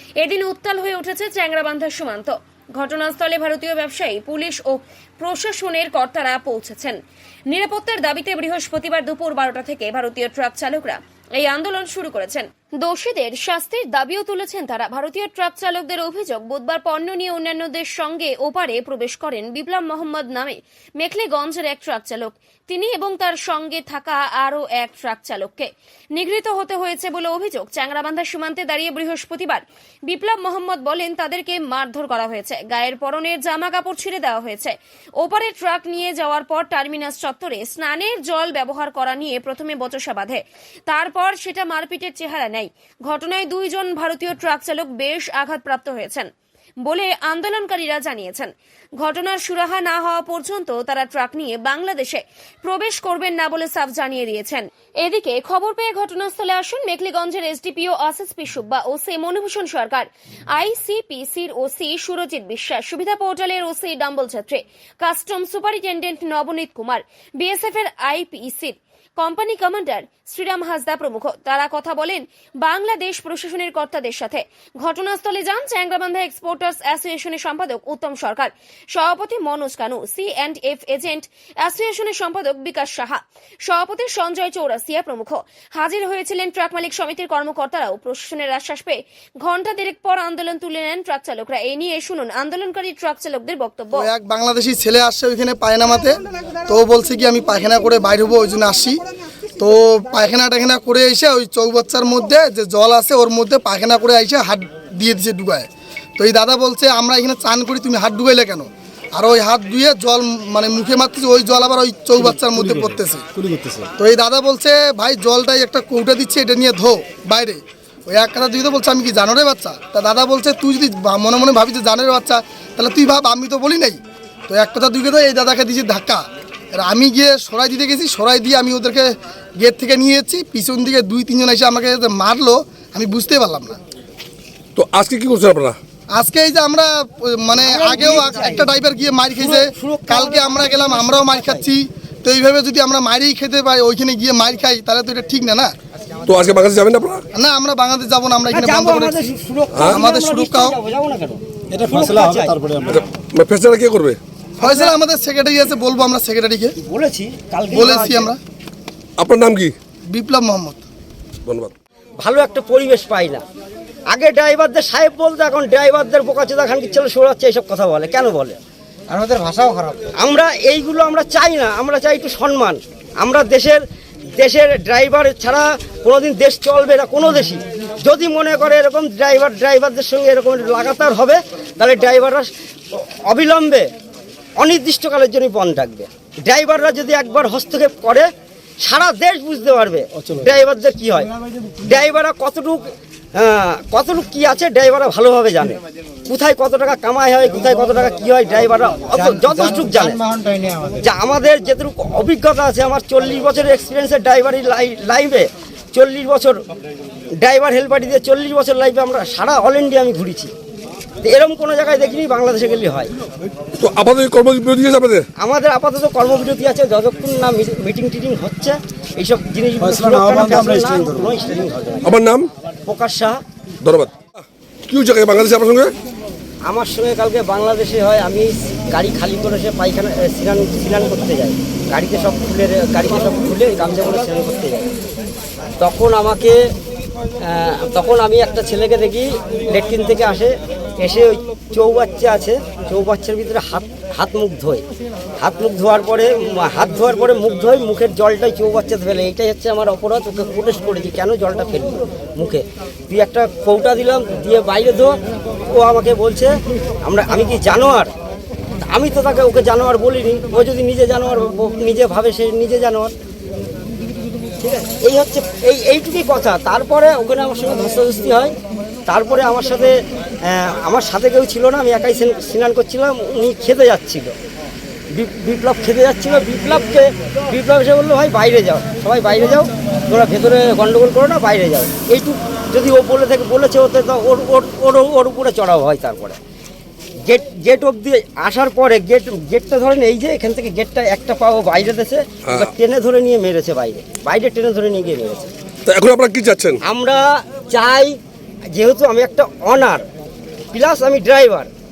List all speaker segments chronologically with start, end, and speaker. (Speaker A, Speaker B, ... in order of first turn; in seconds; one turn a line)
Speaker A: 0.2-46.3
Speaker A: 46.8-94.1
Speaker B: 94.0-99.0
Speaker B: 99.6-113.2
Speaker C: 113.4-113.9
Speaker B: 113.9-133.8
Speaker D: 134.8-135.8
Speaker B: 136.1-145.7
Speaker E: 137.6-138.7
Speaker E: 139.3-141.7
Speaker D: 146.2-147.2
Speaker B: 147.3-149.2
Speaker E: 148.5-152.6
Speaker D: 149.7-150.0
Speaker B: 149.8-150.8
Speaker C: 151.7-153.0
Speaker D: 152.9-154.2
Speaker E: 154.6-154.9
Speaker B: 154.6-156.7
Speaker E: 156.8-158.3
Speaker B: 157.7-158.4
Speaker D: 159.2-159.7
Speaker B: 160.1-160.8
Speaker D: 161.4-161.7
Speaker E: 162.2-163.4
Speaker E: 164.1-168.6
Speaker E: 170.1-173.8
Speaker E: 174.3-183.9
Speaker E: 184.6-188.3
Speaker E: 188.8-200.4
Speaker C: 200.6-200.9
Speaker E: 201.0-206.6
Speaker E: 207.3-210.5
Speaker E: 211.2-213.1
Speaker D: 213.8-215.3
Speaker E: 215.4-222.0
Speaker C: 219.8-221.3
Speaker D: 222.0-222.5
Speaker E: 222.8-223.4
Speaker D: 223.8-225.9
Speaker E: 226.6-234.9
Speaker E: 235.8-236.6
Speaker E: 237.4-244.8
Speaker E: 245.4-255.2
Speaker E: 255.7-258.1
Speaker E: 258.8-263.1
Speaker E: 264.6-268.5
Speaker E: 269.1-274.3
Speaker E: 275.1-286.4
Speaker E: 287.2-295.5
Speaker D: 292.4-292.7
Speaker D: 295.9-296.8
Speaker E: 296.8-298.2
Speaker E: 298.7-300.1
Speaker E: 300.7-301.7